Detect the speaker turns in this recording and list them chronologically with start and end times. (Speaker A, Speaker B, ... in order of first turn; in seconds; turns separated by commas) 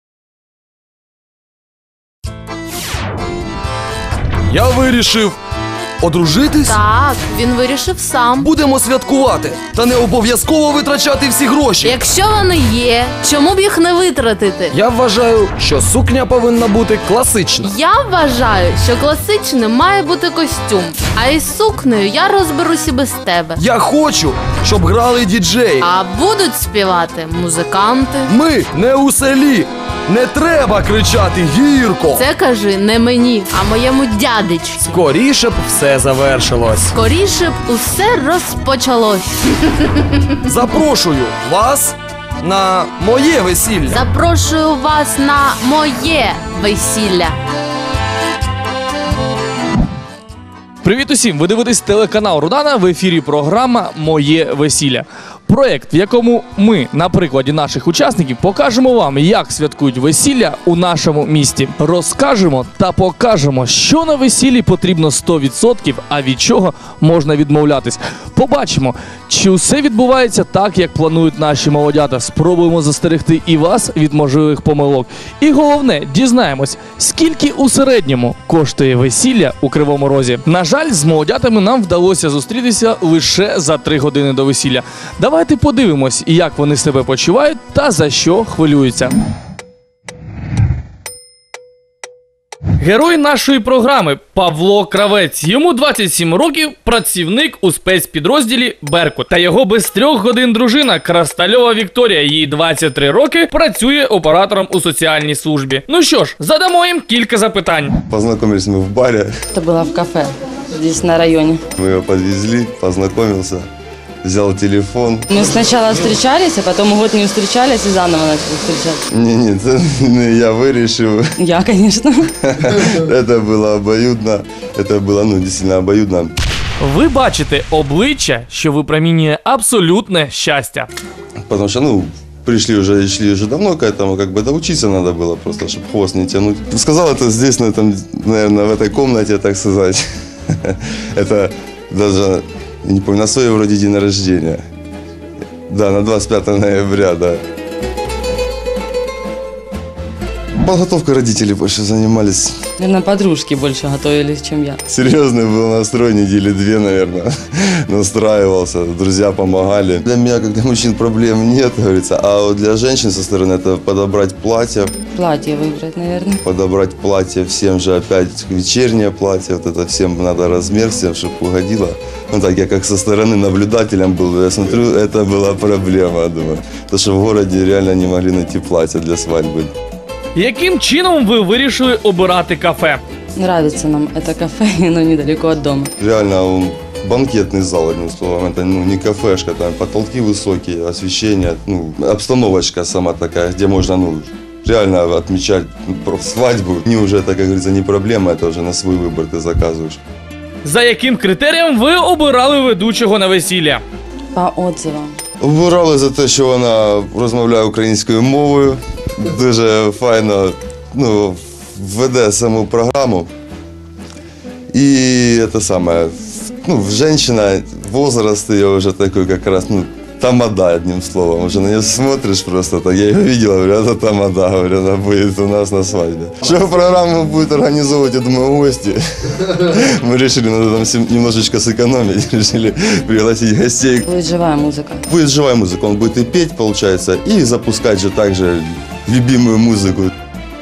Speaker A: 4.5-5.4, Speaker A: 6.0-6.8, Speaker B: 6.6-8.5, Speaker A: 8.4-12.0, Speaker B: 11.8-14.7, Speaker A: 14.7-17.7, Speaker B: 17.6-23.6, Speaker A: 23.6-25.9, Speaker B: 25.8-28.3, Speaker A: 28.3-32.3, Speaker B: 32.1-34.9, Speaker A: 34.8-36.9, Speaker B: 36.9-40.0, Speaker A: 40.5-44.0, Speaker B: 43.9-47.4, Speaker C: 50.8-89.1, Speaker C: 92.8-107.9, Speaker D: 108.1-109.3, Speaker E: 109.5-111.6, Speaker D: 111.8-113.7, Speaker D: 114.2-115.3, Speaker E: 115.3-119.0, Speaker D: 119.1-121.3, Speaker E: 121.4-122.3, Speaker D: 122.5-126.3, Speaker C: 126.8-130.9, Speaker D: 131.5-144.6, Speaker D: 145.7-147.4, Speaker D: 150.6-152.6, Speaker E: 152.8-154.8, Speaker D: 154.9-165.0, Speaker E: 165.1-166.4, Speaker D: 166.4-179.7, Speaker C: 180.3-183.0, Speaker E: 183.4-185.9, Speaker D: 186.0-200.0, Speaker C: 200.6-203.8, Speaker E: 204.3-205.2, Speaker D: 205.4-213.3, Speaker D: 214.7-234.1, Speaker E: 234.1-235.0, Speaker D: 235.1-240.1